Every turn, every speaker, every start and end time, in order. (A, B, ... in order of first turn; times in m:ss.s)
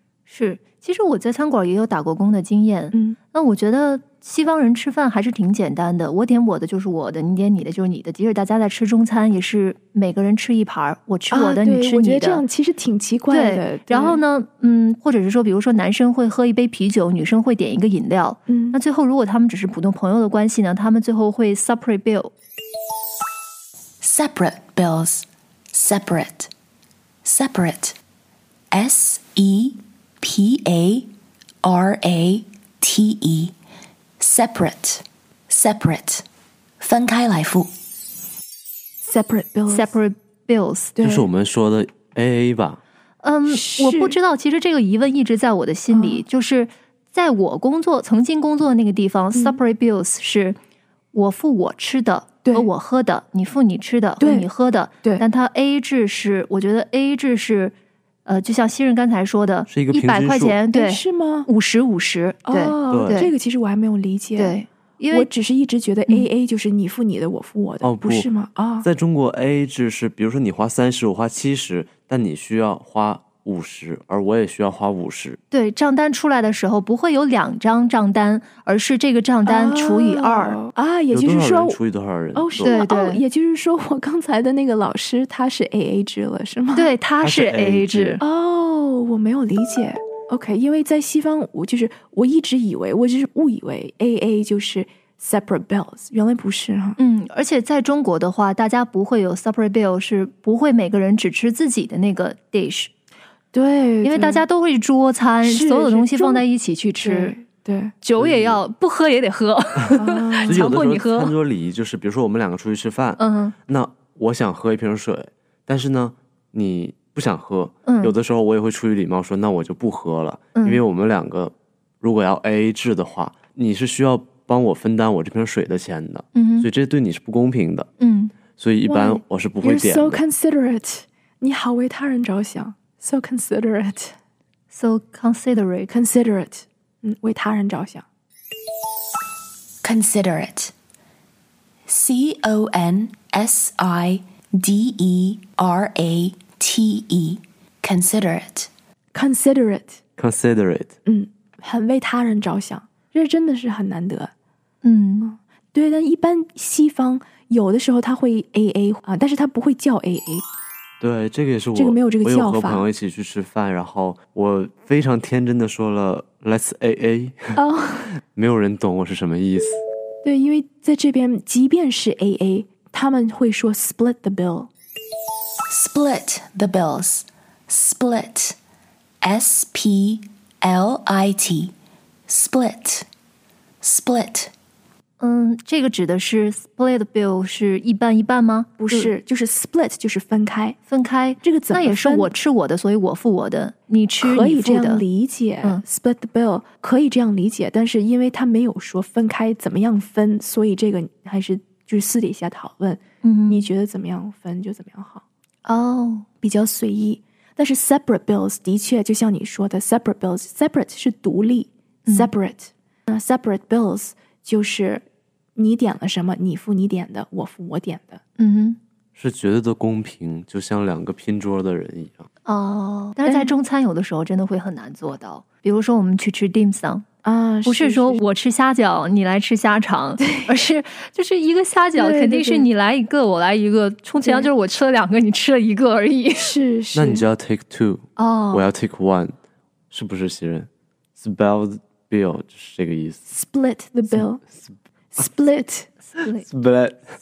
0:00.3-0:12.4 A
0:02.9-0:03.2 B
0:11.3-0:14.2 B
0:13.3-0:22.3 A
0:18.5-0:18.8 B
0:24.0-0:26.5 C
0:27.2-0:28.0 C
0:28.7-0:31.1 C
0:31.6-0:33.5 C
0:34.2-0:36.2 C
0:36.8-0:37.7 C
0:39.0-0:39.9 B
0:39.7-0:41.0 A
0:41.0-0:41.3 B
0:41.0-0:42.8 D
0:43.2-0:50.6 A
0:43.5-0:44.2 B
0:45.9-0:46.2 B
0:49.3-0:49.6 B
0:51.1-1:03.3 A
0:54.2-0:54.5 B
0:59.7-1:00.6 D
1:00.7-1:01.5 B
1:02.4-1:04.6 B
1:02.9-1:03.3 D
1:04.4-1:05.3 A
1:05.1-1:08.9 B
1:07.8-1:08.3 D
1:08.8-1:15.4 D
1:15.5-1:20.6 A
1:19.4-1:21.8 B
1:21.1-1:22.8 D
1:22.3-1:26.9 B
1:22.6-1:23.2 A
1:26.7-1:28.2 A
1:27.2-1:28.2 D
1:28.2-1:37.0 B
1:37.0-1:42.9 A
1:43.5-1:44.4 B
1:44.0-1:47.4 A
1:45.4-1:46.4 B
1:47.0-1:47.9 B
1:48.0-1:51.3 A
1:48.2-1:48.6 D
1:49.9-1:50.6 B
1:50.4-2:07.9 D
1:53.2-1:53.5 A
1:57.8-1:58.1 A
2:00.6-2:00.8 A
2:06.3-2:06.7 A
2:08.0-2:08.3 A
2:08.6-2:10.2 D
2:08.8-2:14.1 B
2:14.7-2:15.9 A
2:15.9-2:18.0 B
2:19.8-2:20.7 C
2:21.9-2:28.7 C
2:29.1-2:30.0 B
2:30.2-2:30.9 D
2:31.0-2:34.3 B
2:34.8-2:35.3 A
2:35.2-2:40.4 B
2:41.0-2:47.4 D
2:41.7-2:42.9 B
2:47.5-2:48.2 B
2:48.3-2:49.8 D
2:50.2-2:54.7 B
2:55.7-2:58.6 C
2:59.2-3:01.7 C
3:02.3-3:03.1 C
3:03.8-3:04.5 C
3:05.2-3:09.1 A
3:08.8-3:10.8 B
3:10.9-3:15.0 A
3:11.4-3:12.3 B
3:14.2-3:25.2 B
3:23.2-3:23.6 A
3:25.6-3:26.2 A
3:26.4-3:35.0 B
3:32.0-3:32.3 A
3:35.6-3:38.2 B
3:38.4-3:38.8 A
3:39.2-3:42.3 D
3:42.4-3:47.0 A
3:43.2-3:43.6 B
3:47.2-3:48.2 B
3:47.6-3:56.5 A
3:52.0-3:52.7 B
3:54.2-3:54.5 B
3:56.3-3:57.2 B
3:56.9-3:59.4 D
3:58.2-3:58.7 A
3:59.9-4:03.2 D
4:03.3-4:04.4 B
4:05.1-4:05.9 B
4:06.1-4:06.4 A
4:06.4-4:07.0 D